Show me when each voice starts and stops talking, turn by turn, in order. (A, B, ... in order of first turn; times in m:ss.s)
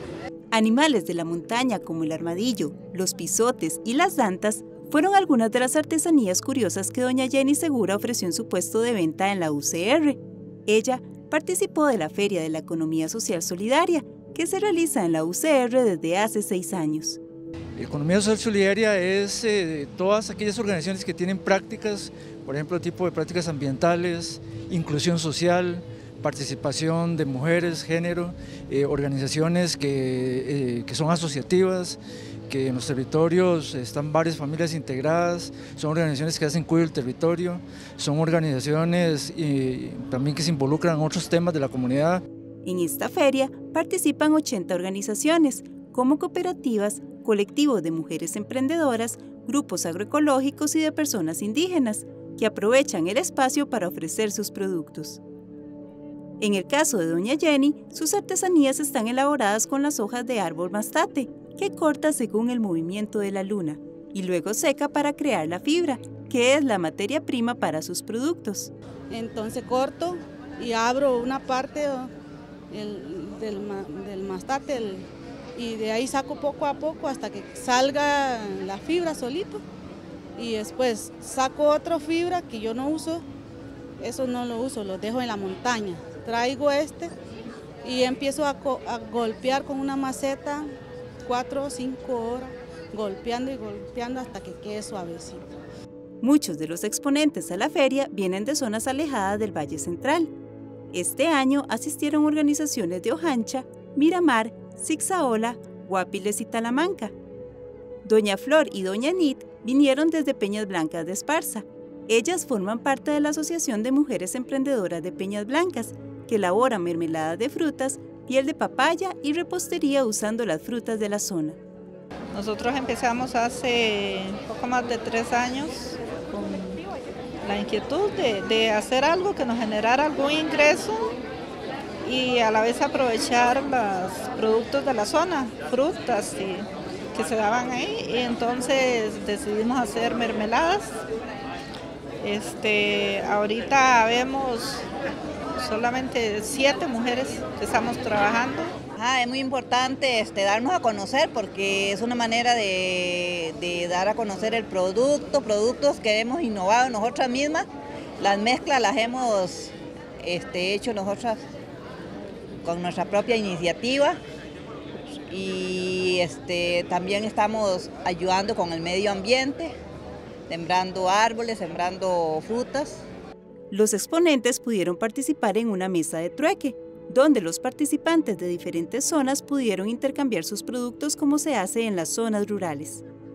0:00.5-0:17.2 A
0:17.8-0:32.0 B
0:32.5-0:42.2 B
0:42.6-0:55.2 A
0:56.4-1:08.7 A
1:09.1-1:12.1 C
1:12.7-1:19.6 C
1:20.4-1:23.2 C
1:24.0-1:27.1 C
1:27.8-1:30.7 C
1:31.2-1:35.4 C
1:36.2-1:40.3 A
1:40.9-1:47.1 A
1:48.0-2:01.6 A
2:02.3-2:06.8 D
2:07.4-2:11.2 D
2:12.0-2:21.0 D
2:22.2-2:24.8 D
2:25.6-2:28.7 D
2:29.0-2:37.6 E
2:38.2-2:41.4 E
2:42.6-2:44.2 E
2:45.0-2:49.7 E
2:50.5-2:53.0 E
2:53.7-3:03.0 A